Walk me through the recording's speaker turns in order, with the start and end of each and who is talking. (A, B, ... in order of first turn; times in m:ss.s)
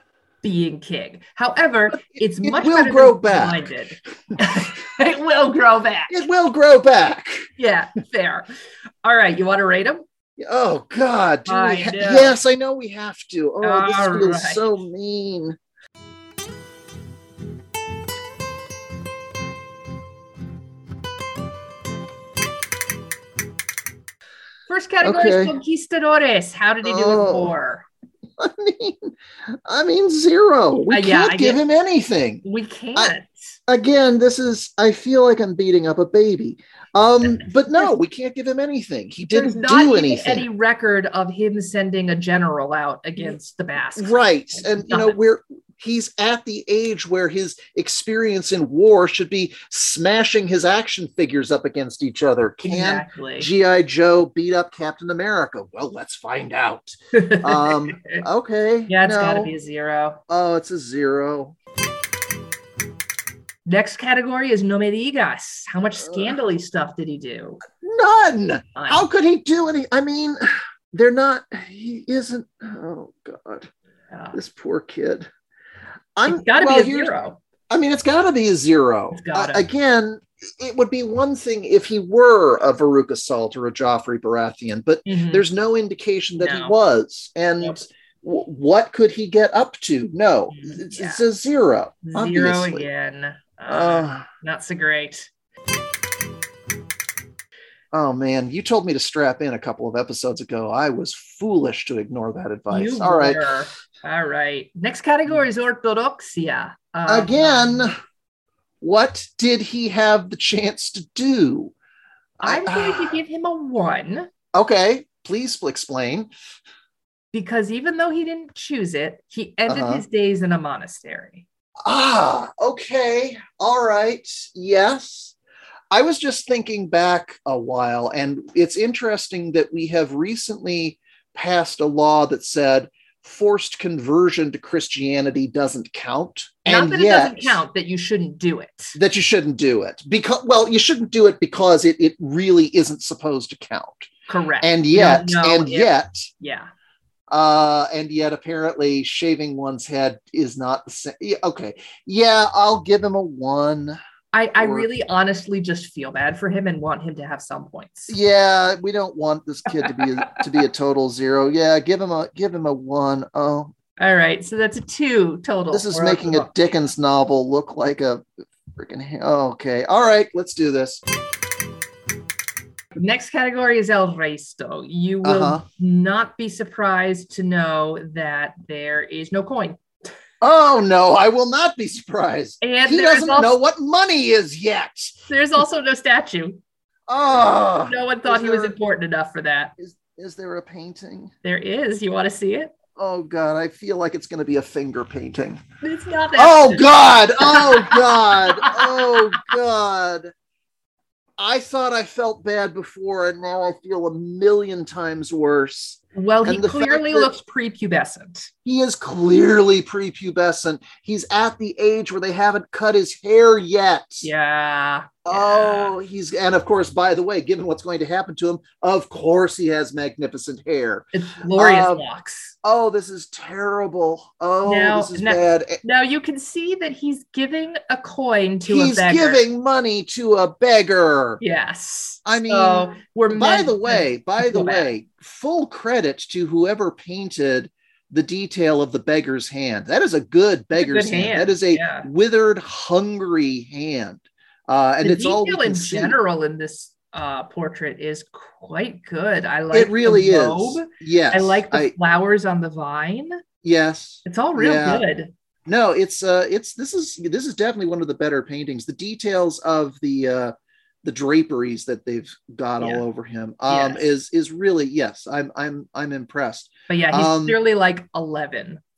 0:00.4-0:06.2 A
0:02.2-0:03.7 B
0:06.1-0:07.5 B
0:07.6-0:08.5 A
0:09.0-0:10.0 A
0:10.4-0:15.6 B
0:11.5-0:12.4 A
0:13.6-0:14.8 A
0:24.7-0:27.9 A
0:25.0-0:25.5 B
0:26.8-0:27.5 B
0:28.4-0:29.1 B
0:29.6-0:32.4 B
0:30.9-0:31.6 A
0:32.4-0:33.6 A
0:33.7-0:40.5 B
0:37.2-0:37.9 A
0:39.3-0:45.2 A
0:43.9-0:59.5 B
0:52.6-0:53.5 A
0:57.1-0:58.2 A
0:58.9-1:00.2 A
1:00.3-1:01.6 B
1:03.7-1:07.6 A
1:07.8-1:13.7 B
1:08.8-1:09.1 A
1:14.1-1:14.4 A
1:14.3-1:15.3 B
1:16.2-1:17.1 B
1:16.3-1:17.4 A
1:17.7-1:32.9 B
1:19.1-1:19.7 A
1:25.1-1:25.4 A
1:26.4-1:26.7 A
1:30.5-1:31.2 A
1:32.0-1:35.3 A
1:33.7-1:34.2 B
1:37.9-1:43.4 B
1:42.7-1:47.9 A
1:47.1-1:47.9 B
1:48.8-1:51.7 B
1:52.4-1:53.2 B
1:52.4-1:54.3 A
1:54.5-1:56.3 B
1:57.3-2:01.4 A
1:59.7-2:00.0 B
2:01.8-2:05.4 B
2:05.9-2:17.6 B
2:16.7-2:19.0 A
2:19.0-2:24.1 B
2:24.3-2:26.7 A
2:24.6-2:26.3 B
2:27.3-2:34.0 B
2:34.3-2:38.1 A
2:34.6-2:34.9 B
2:38.1-2:43.7 B
2:39.8-2:40.3 A
2:44.0-2:46.8 A
2:45.7-2:51.0 B
2:53.0-2:59.8 A
2:55.2-2:55.6 B
3:00.4-3:05.2 B
3:02.6-3:03.6 A
3:05.3-3:06.6 A
3:07.1-3:08.7 B
3:07.8-3:09.7 A
3:09.8-3:11.3 B
3:11.4-3:12.7 A
3:13.0-3:15.6 B
3:15.8-3:19.2 A
3:16.4-3:20.3 B
3:21.4-3:27.3 B
3:26.2-3:28.5 A
3:28.6-3:34.3 B
3:34.2-3:35.9 A
3:35.2-3:42.0 B
3:41.1-3:42.6 A
3:42.6-3:45.8 B
3:44.7-3:49.4 A
3:48.7-3:51.4 B
3:51.4-3:54.9 A
3:52.2-4:06.2 B
4:00.8-4:02.1 A
4:05.0-4:13.4 A
4:09.7-4:11.9 B
4:13.6-4:15.0 B
4:14.2-4:15.3 A
4:15.7-4:20.5 B
4:21.0-4:27.6 B
4:22.8-4:23.0 A
4:23.7-4:24.1 A
4:26.9-4:28.8 A